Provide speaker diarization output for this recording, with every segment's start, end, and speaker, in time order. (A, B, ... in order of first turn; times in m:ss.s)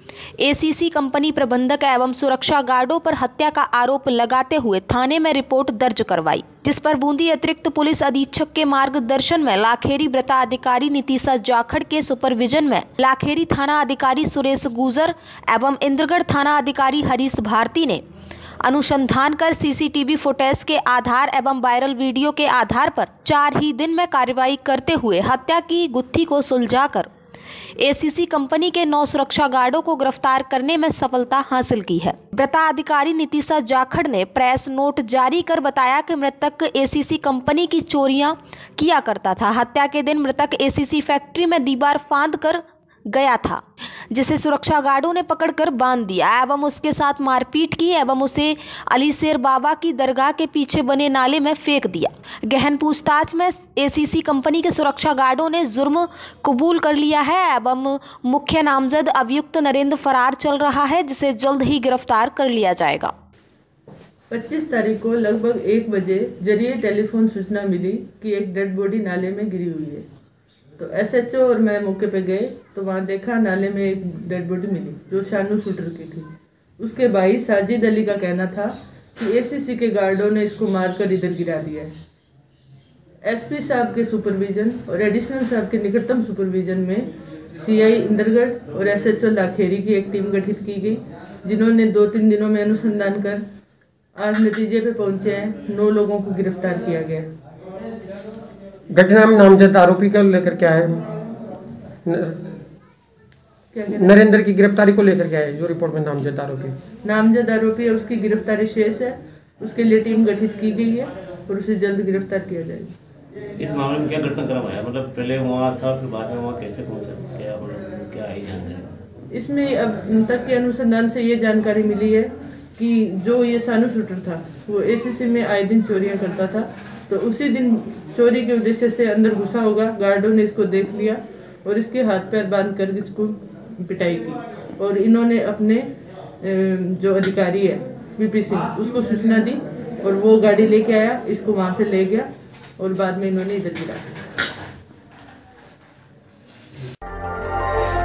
0:00.4-0:18.0 A
0:18.6-0:27.1 A
0:27.8-1:03.1 A
1:04.3-1:10.1 B
1:10.8-1:21.9 B
1:23.3-1:33.4 B
1:34.2-1:37.3 B
1:38.9-1:41.0 C
1:42.0-1:42.4 C
1:43.7-1:44.2 B
1:43.9-1:46.8 C
1:47.0-1:52.9 B
1:53.6-1:58.9 D
1:59.3-2:15.9 B
2:16.4-2:24.2 B